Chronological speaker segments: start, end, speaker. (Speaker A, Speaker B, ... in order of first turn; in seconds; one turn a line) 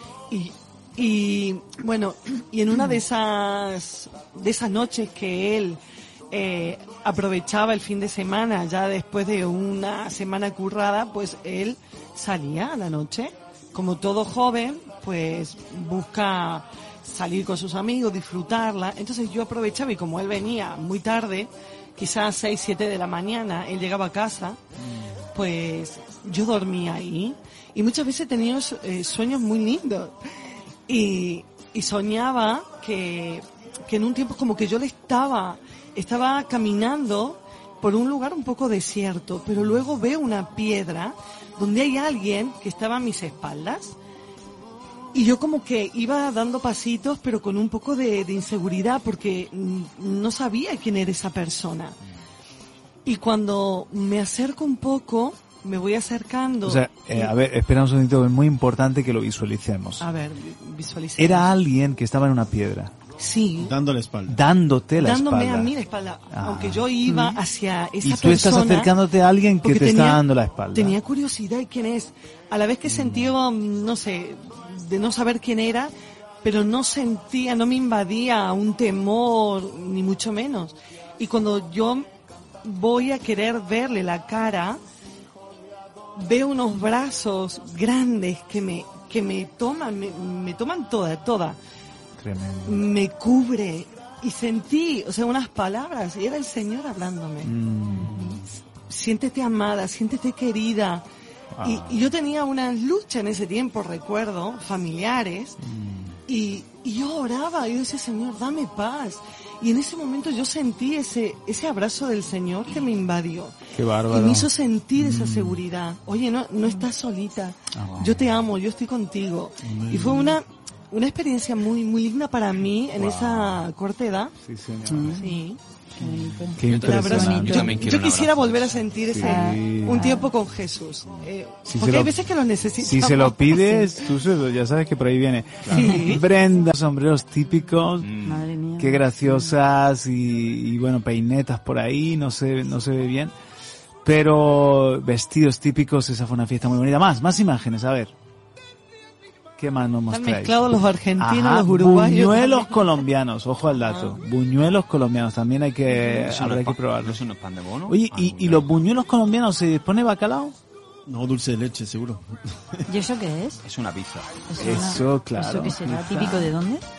Speaker A: 0.3-5.8
Speaker A: 6.3-24.6
Speaker A: 25.3-30.1
Speaker A: 30.9-44.0
Speaker A: 45.1-52.0
Speaker A: 53.0-57.3
Speaker B: 56.6-60.1
Speaker A: 60.0-61.5
Speaker B: 61.2-62.9
Speaker A: 63.2-63.7
Speaker C: 63.6-64.4
Speaker B: 64.3-65.7
Speaker A: 65.0-68.9
Speaker B: 66.3-66.8
Speaker B: 68.0-71.0
Speaker A: 69.6-75.9
Speaker B: 72.9-73.2
Speaker A: 76.4-82.0
Speaker A: 82.6-84.8
Speaker A: 86.2-91.6
Speaker B: 92.2-92.8
Speaker A: 92.6-97.5
Speaker B: 97.4-98.4
Speaker A: 98.9-101.0
Speaker B: 101.5-102.0
Speaker A: 101.6-105.6
Speaker B: 105.6-106.2
Speaker A: 106.3-113.5
Speaker B: 113.7-115.6
Speaker A: 114.1-124.3
Speaker B: 117.7-118.2
Speaker C: 119.6-120.3
Speaker B: 123.0-123.6
Speaker B: 124.4-125.2
Speaker D: 124.9-125.3
Speaker A: 125.2-125.6
Speaker D: 126.0-127.8
Speaker B: 126.5-127.8
Speaker E: 126.6-128.8
Speaker A: 126.7-133.6
Speaker B: 129.1-130.1
Speaker D: 129.2-130.3
Speaker B: 131.7-132.1
Speaker B: 132.8-138.1
Speaker D: 133.5-133.8
Speaker A: 135.7-136.2
Speaker D: 135.7-136.1
Speaker E: 138.0-138.5
Speaker D: 138.2-139.5
Speaker B: 138.8-143.3
Speaker B: 144.0-148.1
Speaker B: 149.6-157.2
Speaker A: 150.1-152.7
Speaker A: 153.7-154.2
Speaker E: 155.9-158.7
Speaker B: 157.9-160.5
Speaker C: 161.1-162.8
Speaker D: 162.9-163.6
Speaker E: 163.6-164.3
Speaker D: 164.5-166.8
Speaker B: 164.6-166.5